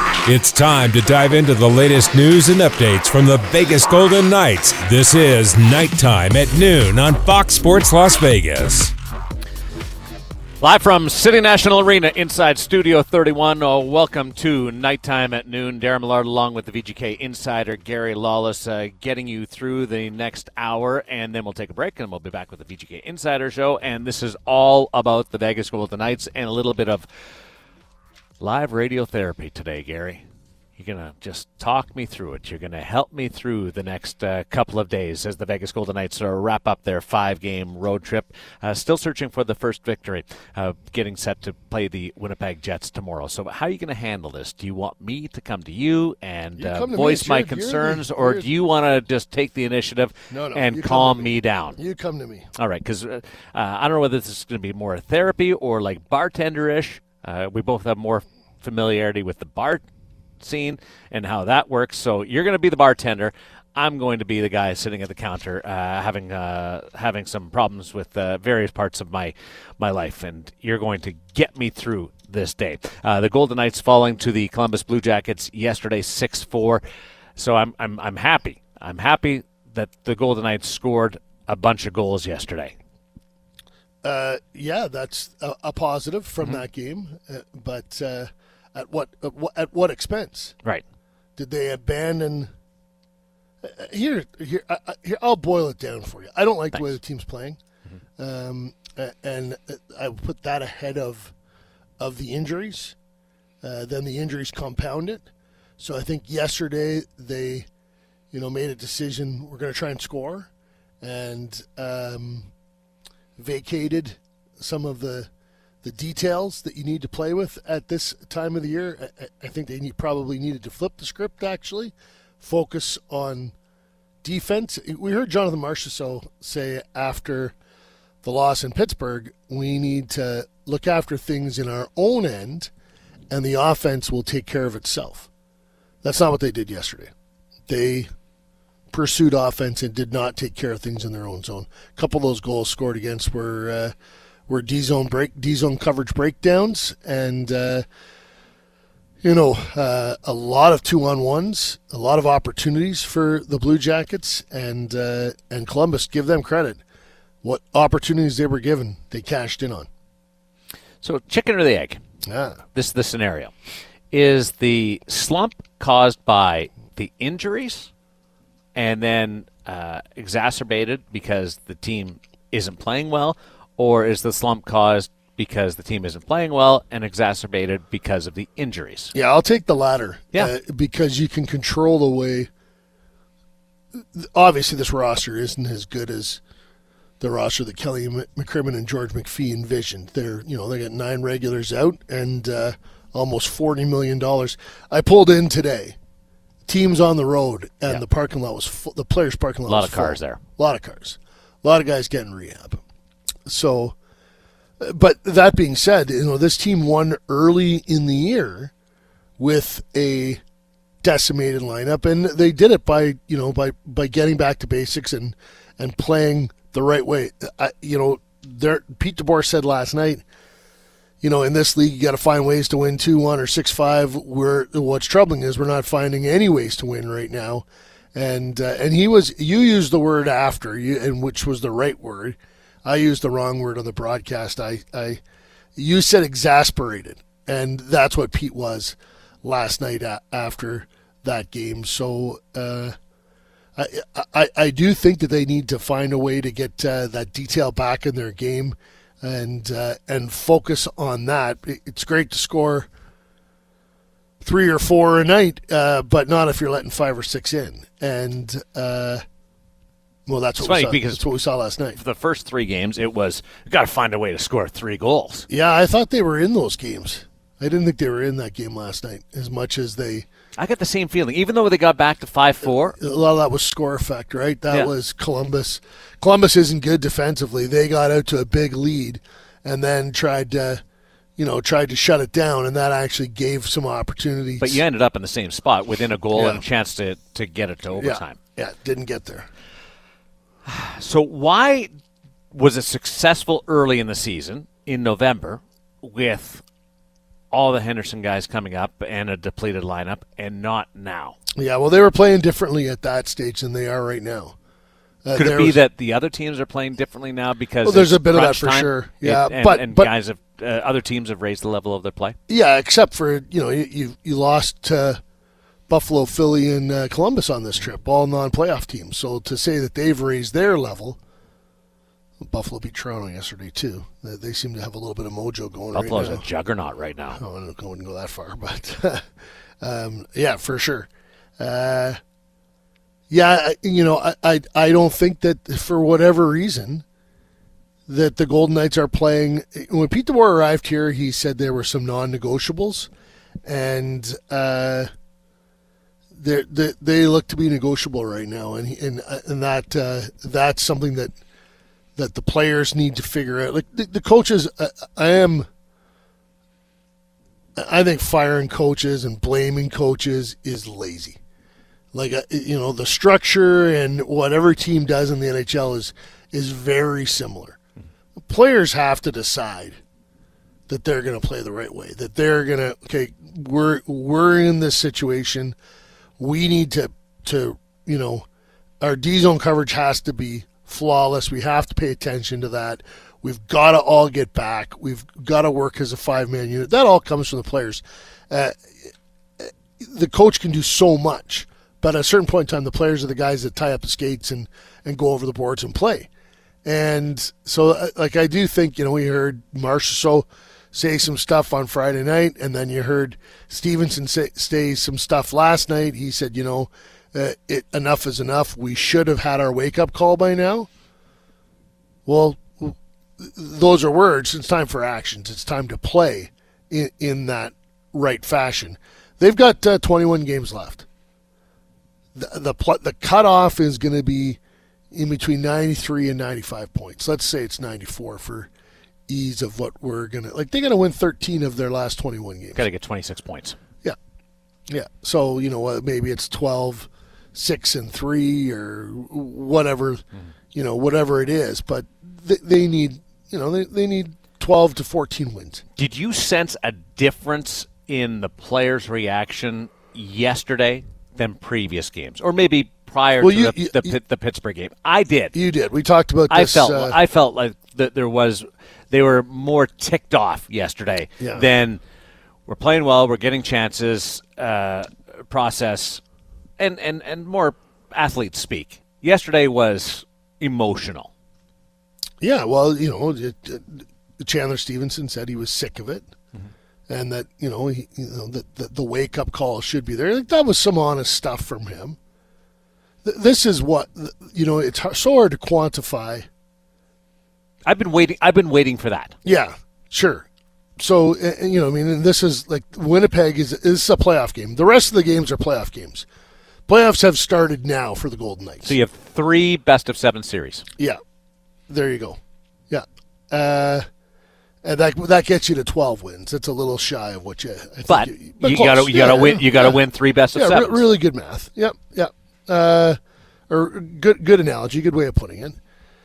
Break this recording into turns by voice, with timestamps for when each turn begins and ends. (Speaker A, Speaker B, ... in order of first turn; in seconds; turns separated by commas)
Speaker A: 0.3-8.9, Speaker B: 10.6-27.1, Speaker B: 28.4-30.2, Speaker B: 30.8-51.8, Speaker C: 46.6-48.5, Speaker C: 50.3-52.5, Speaker B: 52.5-59.8, Speaker B: 60.4-76.8, Speaker B: 77.3-82.8, Speaker C: 84.0-90.5, Speaker C: 91.4-92.5, Speaker C: 93.6-97.6, Speaker C: 98.2-101.3, Speaker C: 102.0-103.0, Speaker C: 103.6-105.2, Speaker C: 105.8-107.7, Speaker C: 108.3-110.5, Speaker C: 111.0-112.5, Speaker C: 113.4-115.3, Speaker C: 115.8-123.5, Speaker C: 124.2-127.5, Speaker C: 128.2-132.7, Speaker C: 133.3-135.3, Speaker C: 136.0-137.1, Speaker C: 137.7-138.1, Speaker C: 138.9-143.9, Speaker C: 144.5-147.8, Speaker C: 149.2-156.8, Speaker C: 157.4-159.9, Speaker B: 161.0-162.0, Speaker C: 162.2-162.6, Speaker B: 162.7-163.5, Speaker B: 164.1-167.9, Speaker B: 168.7-179.1, Speaker C: 179.1-182.5, Speaker C: 184.0-186.4, Speaker C: 187.2-196.0, Speaker C: 196.7-202.8, Speaker B: 199.7-200.4, Speaker C: 203.4-203.9, Speaker C: 204.8-208.7, Speaker C: 209.4-210.4, Speaker C: 211.0-220.2, Speaker C: 221.2-235.2, Speaker C: 235.8-242.9, Speaker C: 243.8-252.9, Speaker C: 254.4-259.2, Speaker C: 260.2-262.0, Speaker B: 260.6-261.2, Speaker B: 262.0-265.5, Speaker C: 265.5-270.2, Speaker B: 270.6-273.0, Speaker C: 272.9-280.8, Speaker C: 281.4-284.8, Speaker B: 284.6-288.4, Speaker C: 286.3-286.6, Speaker C: 288.0-289.5, Speaker B: 290.6-291.9, Speaker B: 292.5-296.6, Speaker B: 297.5-301.4, Speaker C: 301.5-304.6, Speaker C: 305.2-305.8, Speaker B: 305.3-312.4, Speaker C: 307.8-310.1, Speaker C: 312.5-315.2, Speaker C: 315.9-321.2, Speaker C: 322.4-326.4, Speaker B: 325.9-327.4, Speaker C: 327.3-332.2, Speaker C: 333.3-337.0, Speaker C: 338.1-343.1, Speaker C: 343.6-345.1, Speaker C: 346.3-351.3, Speaker C: 352.1-355.7, Speaker C: 357.8-361.4, Speaker C: 362.1-367.8, Speaker C: 368.4-370.0, Speaker C: 370.9-375.8, Speaker C: 376.4-378.4, Speaker C: 379.0-389.1, Speaker C: 389.6-396.3, Speaker C: 396.8-410.9, Speaker C: 412.2-421.1, Speaker C: 422.3-424.6, Speaker C: 425.1-428.7, Speaker C: 429.3-432.8, Speaker B: 432.7-433.8, Speaker C: 434.9-445.8, Speaker B: 445.9-455.5, Speaker C: 453.4-454.1, Speaker C: 455.5-457.2, Speaker B: 456.5-462.0, Speaker C: 461.4-461.7, Speaker B: 462.7-466.2, Speaker B: 466.8-471.3, Speaker C: 472.4-476.3, Speaker C: 477.1-482.2, Speaker C: 483.2-486.5, Speaker B: 487.9-489.3, Speaker C: 489.4-490.5, Speaker C: 491.0-496.2, Speaker C: 496.9-498.9, Speaker B: 498.8-500.8, Speaker C: 501.9-504.0, Speaker C: 504.8-510.0, Speaker B: 508.1-511.0, Speaker C: 510.5-513.2, Speaker C: 513.7-515.8